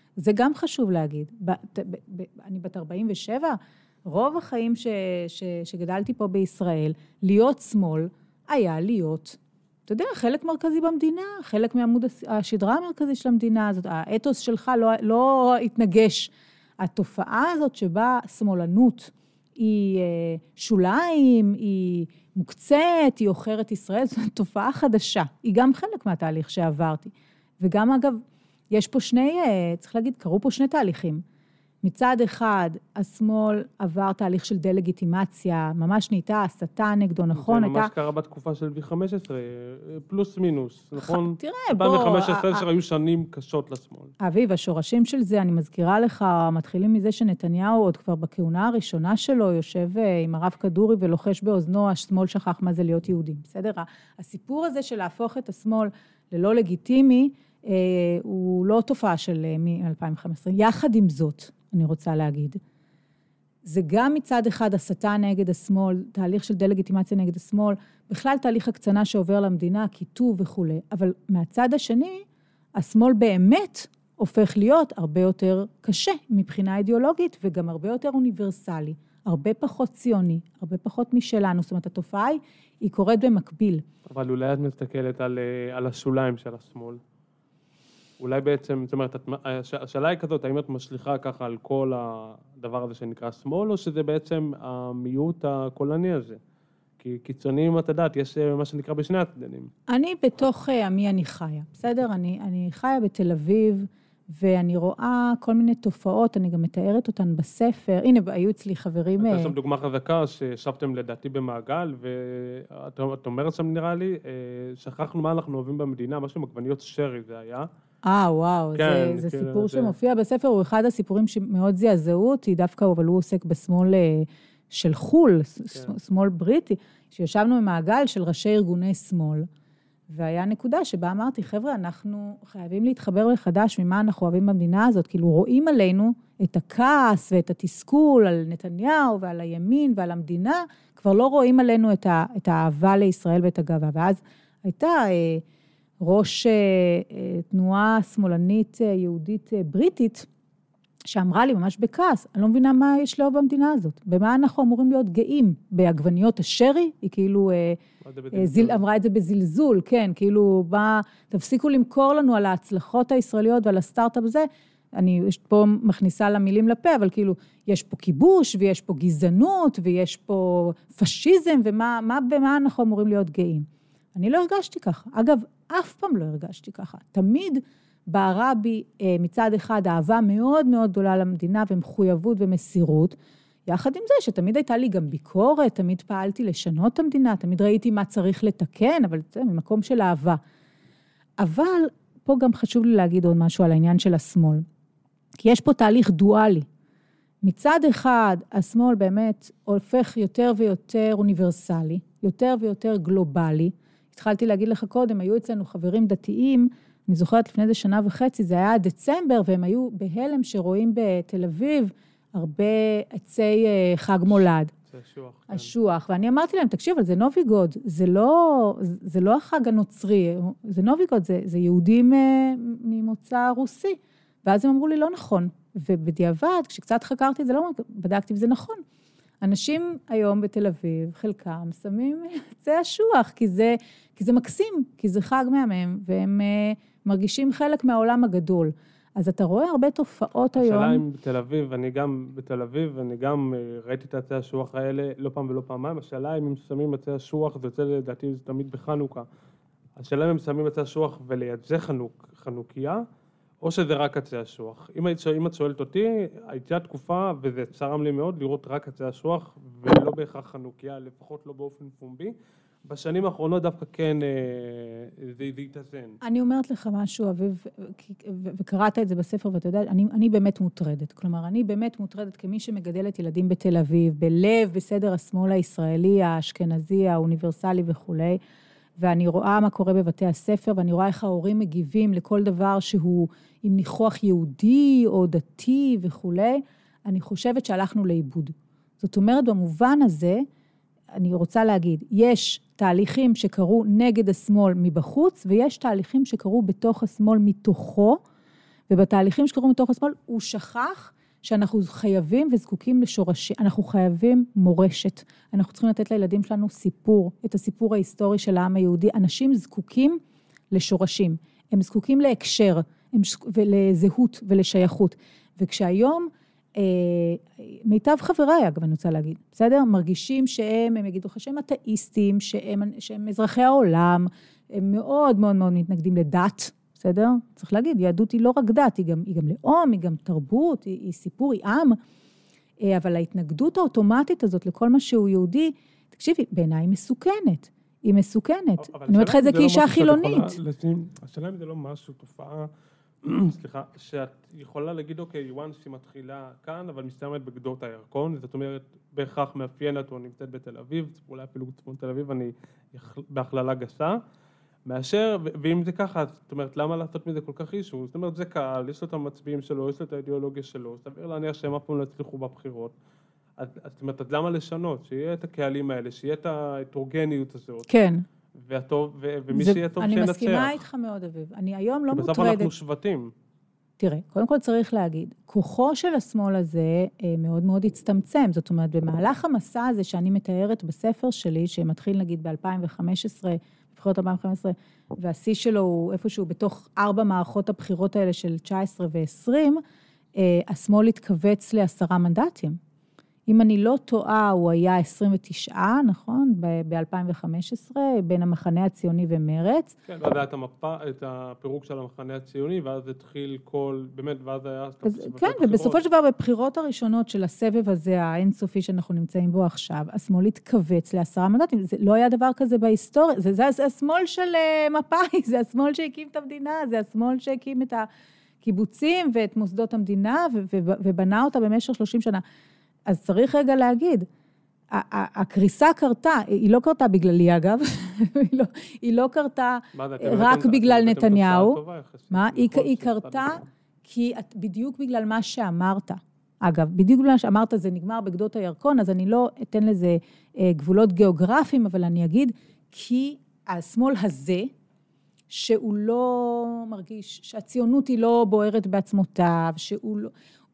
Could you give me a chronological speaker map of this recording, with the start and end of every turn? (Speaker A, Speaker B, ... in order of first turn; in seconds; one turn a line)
Speaker A: 0.2-31.2
Speaker A: 31.8-37.9
Speaker B: 37.3-44.1
Speaker A: 41.0-42.6
Speaker A: 44.2-62.6
Speaker A: 63.6-72.2
Speaker A: 72.7-83.8
Speaker B: 84.0-87.0
Speaker B: 88.2-96.4
Speaker B: 97.0-99.7
Speaker A: 99.9-109.5
Speaker B: 109.2-117.7
Speaker A: 118.0-129.5
Speaker B: 118.7-119.9
Speaker A: 130.1-145.4
Speaker A: 146.0-150.3
Speaker A: 151.1-157.8
Speaker B: 158.0-158.8
Speaker A: 158.3-183.2
Speaker A: 183.7-190.4
Speaker A: 191.4-194.6
Speaker A: 195.4-196.7
Speaker A: 197.4-214.7
Speaker B: 214.4-215.7
Speaker A: 215.5-228.8
Speaker A: 229.4-241.0
Speaker B: 240.5-249.2
Speaker B: 249.9-253.0
Speaker B: 253.6-266.2
Speaker A: 266.2-278.4
Speaker A: 279.0-290.4
Speaker A: 291.2-298.2
Speaker A: 298.9-310.2
Speaker A: 310.7-332.0
Speaker A: 332.8-340.6
Speaker B: 338.8-342.7
Speaker B: 343.2-354.2
Speaker B: 354.9-362.9
Speaker B: 363.6-367.9
Speaker A: 367.9-368.2
Speaker B: 368.5-370.8
Speaker A: 369.5-372.7
Speaker B: 372.1-373.3
Speaker A: 374.0-389.8
Speaker A: 390.3-392.8
Speaker A: 393.5-400.0
Speaker B: 400.1-406.0
Speaker A: 405.0-418.1
Speaker A: 418.6-422.4
Speaker A: 423.1-424.2
Speaker A: 424.9-431.8
Speaker B: 429.9-433.6
Speaker A: 432.3-444.7
Speaker A: 445.5-450.3